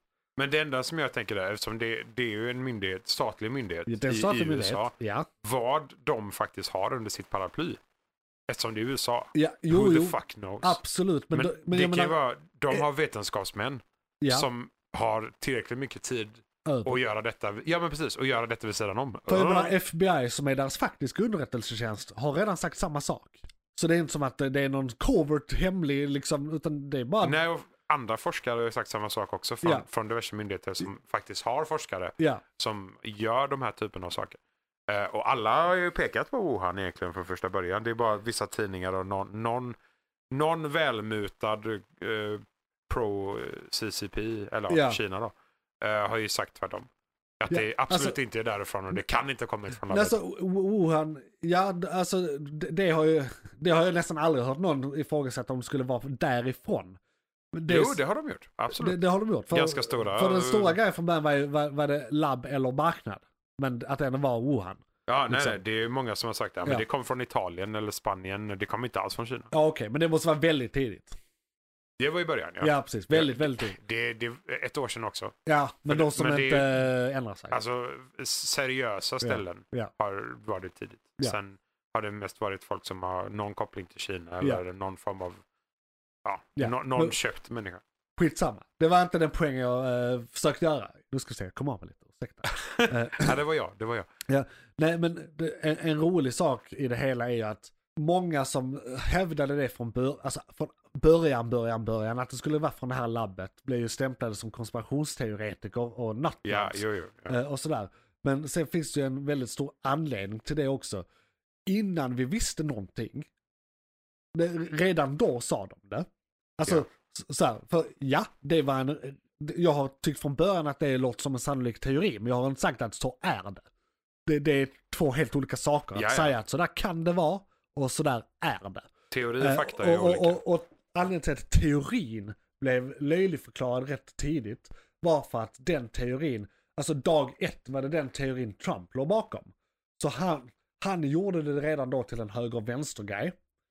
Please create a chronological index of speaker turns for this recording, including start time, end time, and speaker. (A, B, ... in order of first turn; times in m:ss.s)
0:00.4-0:07.8 A
0:03.9-0:05.3 B
0:08.5-0:10.8 A
0:09.3-0:12.2 B
0:11.3-0:19.7 A
0:14.2-0:14.5 B
0:16.6-0:17.0 B
0:19.3-0:27.4 B
0:27.2-0:39.8 A
0:32.2-0:32.4 B
0:40.3-0:46.9 A
0:44.7-0:45.0 B
0:47.4-0:50.2 A
0:47.5-0:48.2 B
0:49.9-0:57.0 B
0:57.5-0:58.0 B
0:57.7-1:00.8 A
0:58.7-1:05.6 B
1:05.1-1:09.5 A
1:09.5-1:11.2 B
1:12.0-1:15.4 A
1:12.6-1:13.8 B
1:15.5-1:17.6 B
1:15.9-1:16.8 A
1:17.5-1:25.4 A
1:19.2-1:19.9 B
1:26.2-1:27.8 A
1:26.6-1:27.2 B
1:28.2-1:33.4 B
1:32.5-1:34.1 A
1:34.3-1:51.1 B
1:46.4-1:47.4 A
1:51.7-1:53.3 B
1:54.3-2:03.7 B
2:04.3-2:23.4 B
2:06.0-2:06.4 A
2:09.1-2:10.4 A